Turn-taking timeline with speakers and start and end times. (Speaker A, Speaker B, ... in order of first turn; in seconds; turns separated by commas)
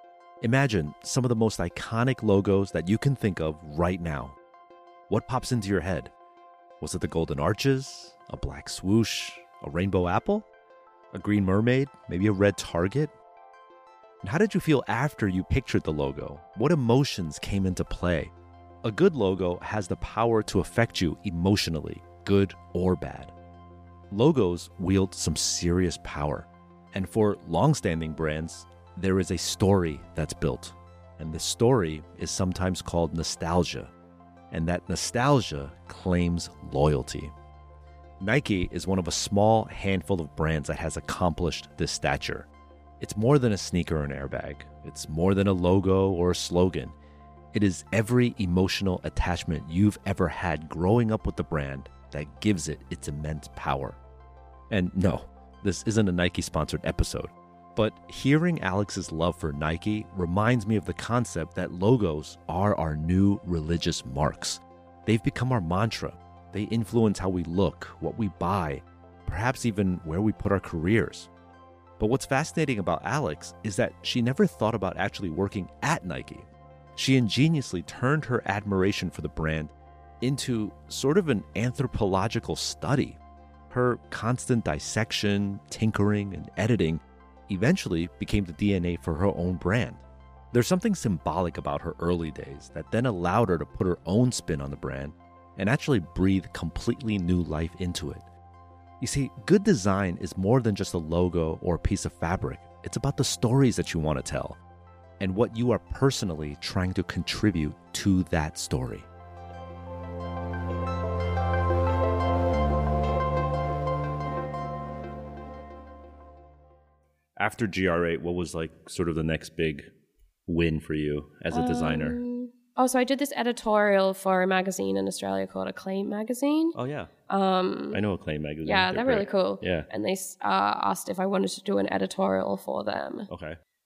Speaker A: 0.4-4.3, Speaker A: 5.1-6.1, Speaker A: 6.8-10.4, Speaker A: 11.1-13.1, Speaker A: 14.2-18.3, Speaker A: 18.8-23.3, Speaker A: 24.1-33.9, Speaker A: 34.5-37.3, Speaker A: 38.2-42.5, Speaker A: 43.0-46.9, Speaker A: 47.5-54.0, Speaker A: 54.7-71.3, Speaker A: 72.0-83.2, Speaker A: 83.7-98.2, Speaker A: 99.0-104.6, Speaker A: 105.2-109.0, Speaker A: 117.4-119.8, Speaker A: 120.5-122.2, Speaker B: 121.5-126.8, Speaker A: 126.7-127.1, Speaker B: 127.3-128.0, Speaker A: 127.9-129.9, Speaker B: 128.6-133.3, Speaker A: 133.3-133.6